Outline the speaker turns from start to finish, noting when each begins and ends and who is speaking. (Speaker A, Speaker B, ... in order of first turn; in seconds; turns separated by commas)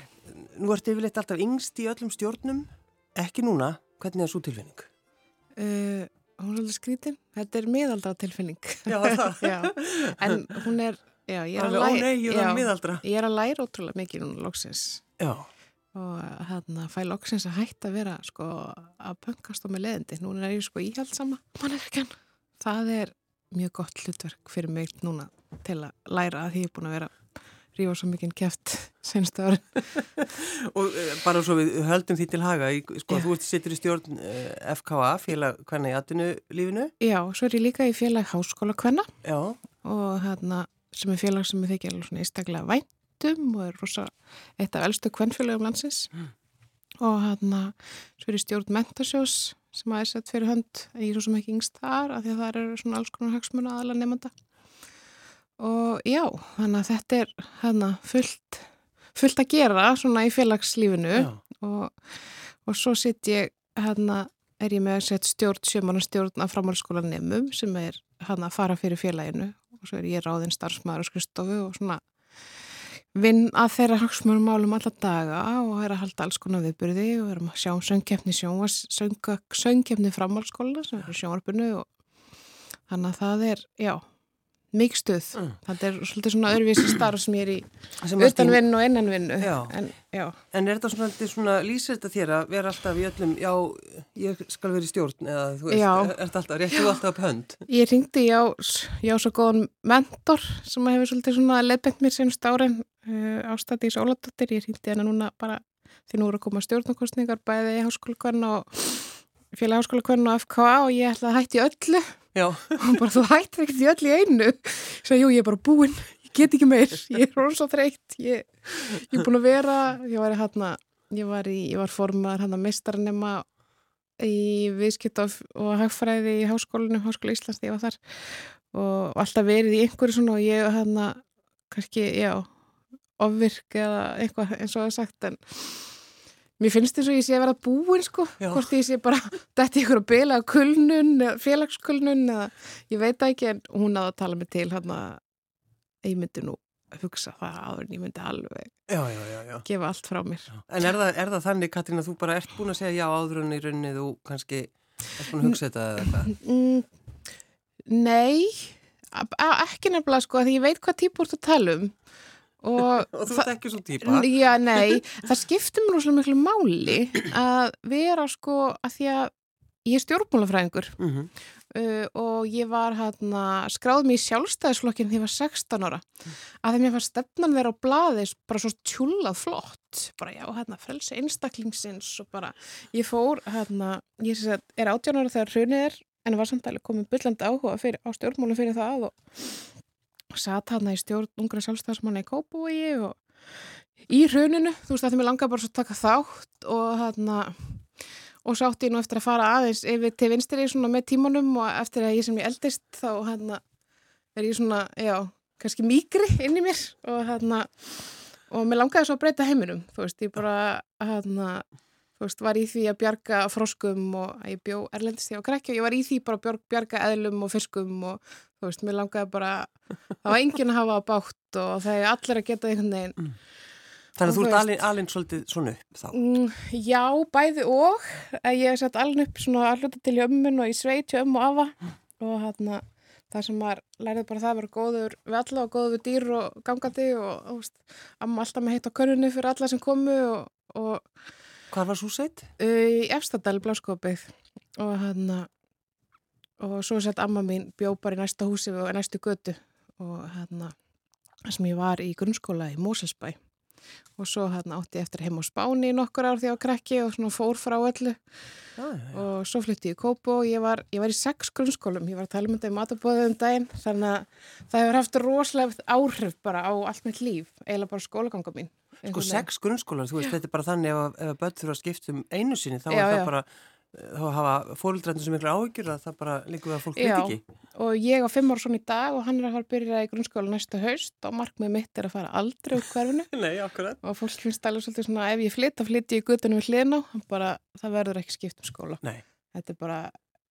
Speaker A: 0.2-4.9, Speaker B: 5.6-15.0, Speaker A: 8.9-10.3, Speaker A: 11.6-13.0, Speaker A: 15.2-15.5, Speaker B: 15.9-27.1, Speaker B: 27.7-30.0, Speaker A: 30.2-36.9, Speaker B: 37.0-39.1, Speaker A: 39.2-39.6, Speaker B: 39.8-46.1, Speaker B: 47.0-54.3, Speaker B: 55.6-62.0, Speaker B: 62.6-72.0, Speaker B: 73.1-81.9, Speaker B: 82.9-84.0, Speaker B: 84.7-90.4, Speaker A: 88.0-88.6, Speaker A: 89.4-89.8, Speaker A: 90.5-97.6, Speaker B: 95.7-96.2, Speaker B: 97.7-123.5, Speaker A: 112.3-113.0, Speaker B: 124.2-132.5, Speaker B: 133.2-135.9, Speaker B: 136.6-145.2, Speaker A: 138.4-138.7, Speaker B: 146.0-148.7, Speaker A: 148.9-149.7, Speaker B: 149.6-150.5, Speaker A: 150.5-156.3, Speaker B: 155.4-156.9, Speaker B: 157.9-162.0, Speaker B: 162.6-169.3, Speaker A: 162.8-165.0, Speaker B: 169.8-171.0, Speaker A: 171.0-171.3, Speaker B: 171.7-176.1, Speaker B: 176.6-189.7, Speaker B: 190.3-193.2, Speaker B: 194.0-197.8, Speaker B: 198.4-203.6, Speaker B: 204.3-211.6, Speaker B: 212.2-223.3, Speaker A: 224.2-226.2, Speaker B: 224.2-224.8, Speaker B: 226.1-241.1, Speaker A: 241.7-242.5, Speaker B: 242.6-245.5, Speaker B: 246.6-250.7, Speaker B: 251.4-253.4, Speaker B: 254.2-258.2, Speaker A: 258.8-259.2, Speaker B: 259.1-269.4, Speaker A: 269.1-277.4, Speaker B: 272.9-273.3, Speaker B: 277.0-283.3, Speaker A: 283.3-284.0, Speaker B: 284.0-289.0, Speaker B: 289.5-290.1